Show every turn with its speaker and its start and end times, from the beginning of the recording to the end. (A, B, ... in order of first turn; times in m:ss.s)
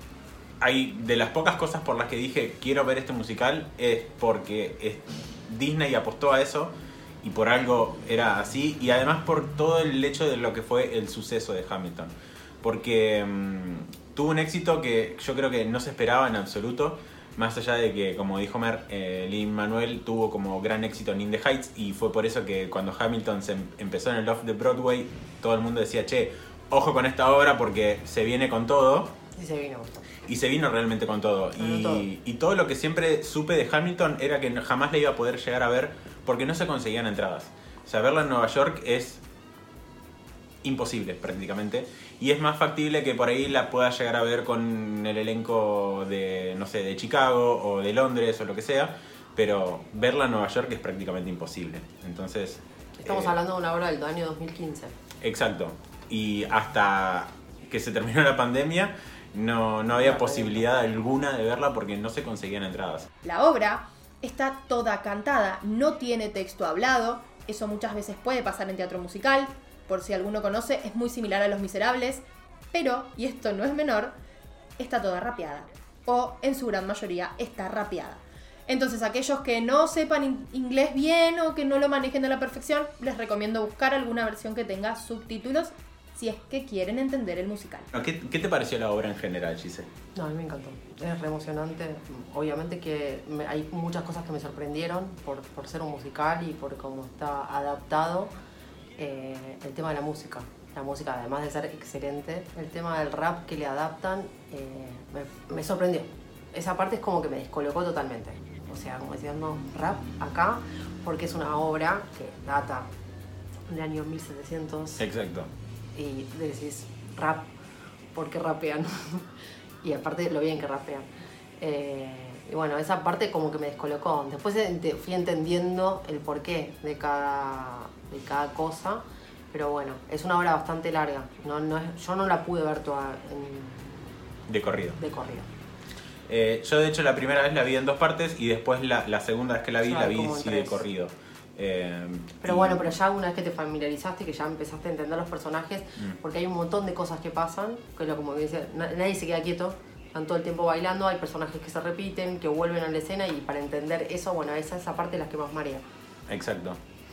0:00.6-0:29.1 A
0:29.3-0:30.0 B
0:30.2-0:39.2 A
0:31.6-0:32.1 B
0:40.6-0:53.3 A
0:53.0-0:55.0 B
0:55.2-1:03.1 A
1:00.0-1:00.6 B
1:03.2-1:14.2 C
1:14.8-1:27.9 C
1:27.9-1:29.9 A
1:30.1-1:38.3 B
1:39.0-1:52.9 B
1:53.7-1:55.0 B
1:55.0-1:55.5 A
1:55.9-1:57.5 B
1:58.1-1:59.3 B
1:59.8-2:01.1 B
2:01.6-2:14.1 B
2:14.5-2:15.0 A
2:15.0-2:15.5 B
2:16.3-2:22.9 A
2:19.8-2:20.8 B
2:22.4-2:35.8 B
2:36.3-2:36.8 A